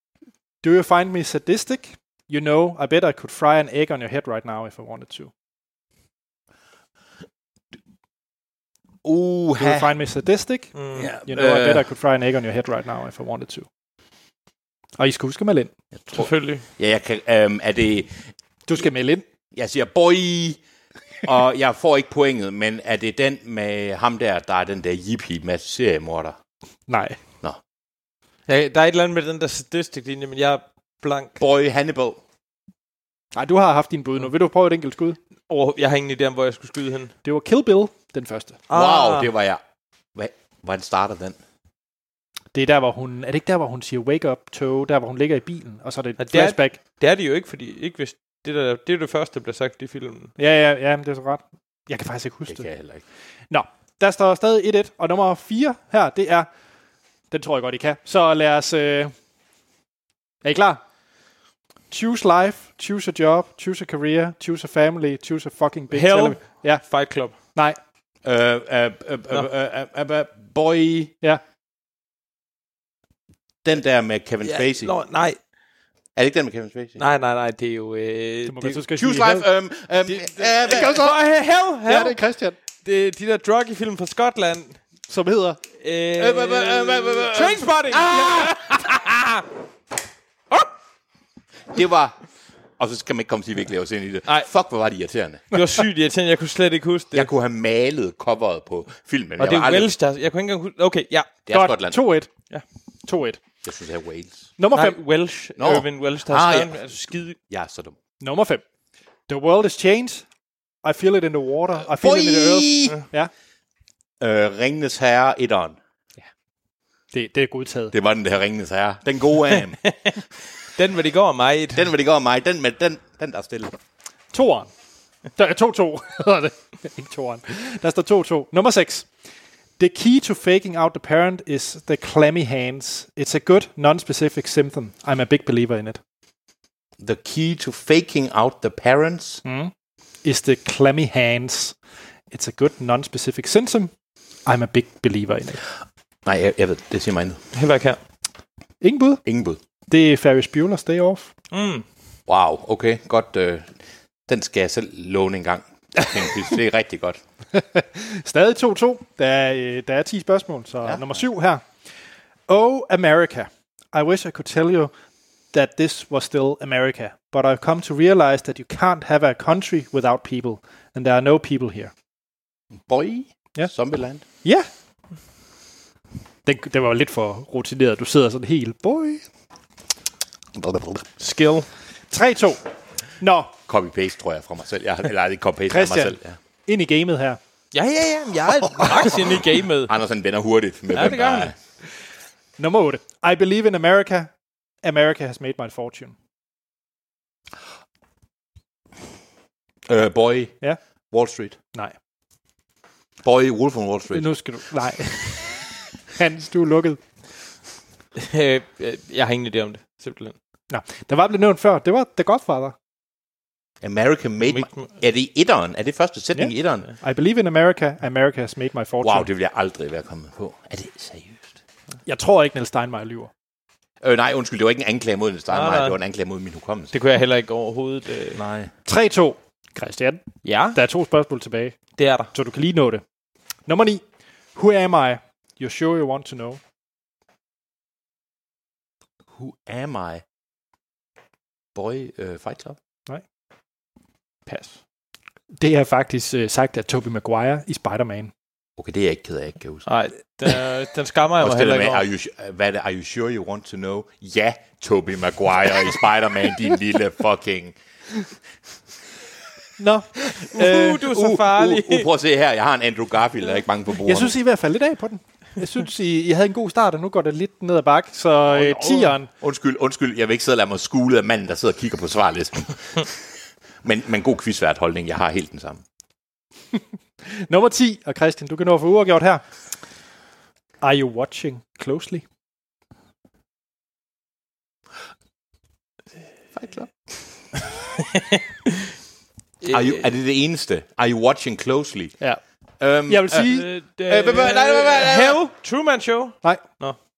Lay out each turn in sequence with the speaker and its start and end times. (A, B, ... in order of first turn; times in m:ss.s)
0:00.6-0:05.3 A
0:09.0-0:10.0 B
0:09.6-0:13.7 A
0:10.7-0:11.1 C
0:11.0-0:11.8 B
0:15.0-0:15.7 A
0:16.1-0:18.2 B
0:16.1-0:16.6 C
0:18.7-0:19.2 A
0:19.5-0:20.6 B
0:21.2-0:26.4 B
0:26.9-0:27.2 A
0:28.5-0:31.4 C
0:31.4-0:32.2 B
0:33.3-0:35.2 A
0:35.5-0:37.1 C
0:37.2-0:38.6 A
0:38.7-0:39.3 C
0:38.7-0:39.6 B
0:40.1-0:41.4 B
0:42.5-0:46.8 A
0:46.2-0:50.3 C
0:50.4-0:52.7 A
0:52.5-0:53.0 B
0:53.5-0:56.5 A
0:57.3-0:59.1 A
1:00.4-1:00.8 A
1:01.9-1:06.8 A
1:05.9-1:07.3 C
1:08.2-1:11.1 B
1:13.6-1:14.9 B
1:14.4-1:15.4 C
1:16.2-1:17.0 B
1:17.0-1:18.8 C
1:18.4-1:19.4 A
1:18.9-1:21.1 B
1:20.1-1:22.2 C
1:20.7-1:21.1 A
1:21.8-1:22.6 A
1:22.8-1:24.8 C
1:25.1-1:25.6 A
1:25.8-1:29.4 C
1:26.2-1:29.0 B
1:31.7-1:32.1 B
1:32.8-1:35.4 B
1:35.5-1:37.3 C
1:37.1-1:39.9 B
1:39.4-1:41.3 C
1:41.4-1:42.0 B
1:41.5-1:42.3 A
1:43.0-1:43.4 A
1:43.6-1:44.5 B
1:44.6-1:45.0 A
1:44.7-1:47.4 C
1:45.6-1:48.0 B
1:48.2-1:48.6 A
1:49.3-1:50.2 A
1:50.8-1:53.3 A
1:51.8-1:53.0 B
1:54.2-1:55.8 B
1:57.1-1:57.9 A
1:57.9-1:59.8 B
1:59.8-2:00.2 C
2:00.8-2:01.9 C
2:01.7-2:03.8 B
2:04.3-2:04.7 A
2:05.4-2:09.1 A
2:09.8-2:16.0 A
2:17.0-2:19.4 B
2:19.4-2:19.7 A
2:20.2-2:21.8 A
2:22.3-2:23.9 A
2:24.4-2:25.6 A
2:26.2-2:27.4 B
2:27.5-2:28.0 C
2:28.8-2:29.2 A
2:29.2-2:29.6 B
2:29.9-2:31.3 A
2:31.5-2:31.8 C
2:32.3-2:37.2 B
2:37.5-2:41.6 A
2:40.8-2:41.2 B
2:42.5-2:44.9 A
2:45.5-2:51.9 A
2:52.8-2:54.2 B
2:54.4-2:54.7 A
2:56.4-2:59.2 A
3:00.6-3:01.0 B
3:01.2-3:01.7 C
3:02.1-3:02.6 A
3:03.2-3:03.5 A
3:03.7-3:06.4 B
3:05.7-3:07.4 A
3:07.7-3:09.9 C
3:09.8-3:11.5 B
3:10.9-3:11.5 C
3:12.6-3:14.3 A
3:14.8-3:16.1 A
3:19.9-3:20.6 B
3:21.1-3:21.6 B
3:23.2-3:24.3 B
3:24.1-3:25.6 A
3:26.1-3:27.0 A
3:28.2-3:30.3 C
3:30.7-3:32.7 A
3:33.8-3:36.9 B
3:34.5-3:34.9 C
3:36.3-3:39.3 A
3:39.0-3:41.5 B
3:42.0-3:43.3 A
3:44.0-3:46.9 B
3:45.5-3:46.0 C
3:46.9-3:48.4 C
3:48.3-3:48.7 B
3:48.8-3:50.2 A
3:50.4-3:50.8 C
3:50.7-3:51.8 A
3:52.0-3:52.3 C
3:52.3-3:53.0 A
3:53.7-3:54.0 A
3:54.5-3:56.6 A
3:59.3-4:00.2 B
4:01.7-4:02.8 B
4:04.5-4:04.7 C
4:05.6-4:08.3 A
4:08.8-4:09.9 B
4:09.8-4:12.0 C
4:11.4-4:17.8 B
4:19.8-4:21.0 A
4:20.5-4:22.1 C
4:20.6-4:24.3 B
4:24.0-4:29.3 A
4:28.5-4:33.2 B
4:33.8-4:35.8 B
4:37.2-4:39.4 A
4:40.8-4:42.2 A
4:46.6-4:46.9 B
4:48.1-4:48.4 C
4:49.6-4:50.1 C
4:49.6-4:52.2 B
4:52.8-4:53.5 B
4:53.1-4:53.7 A
4:53.4-4:57.0 C
4:54.1-4:55.4 B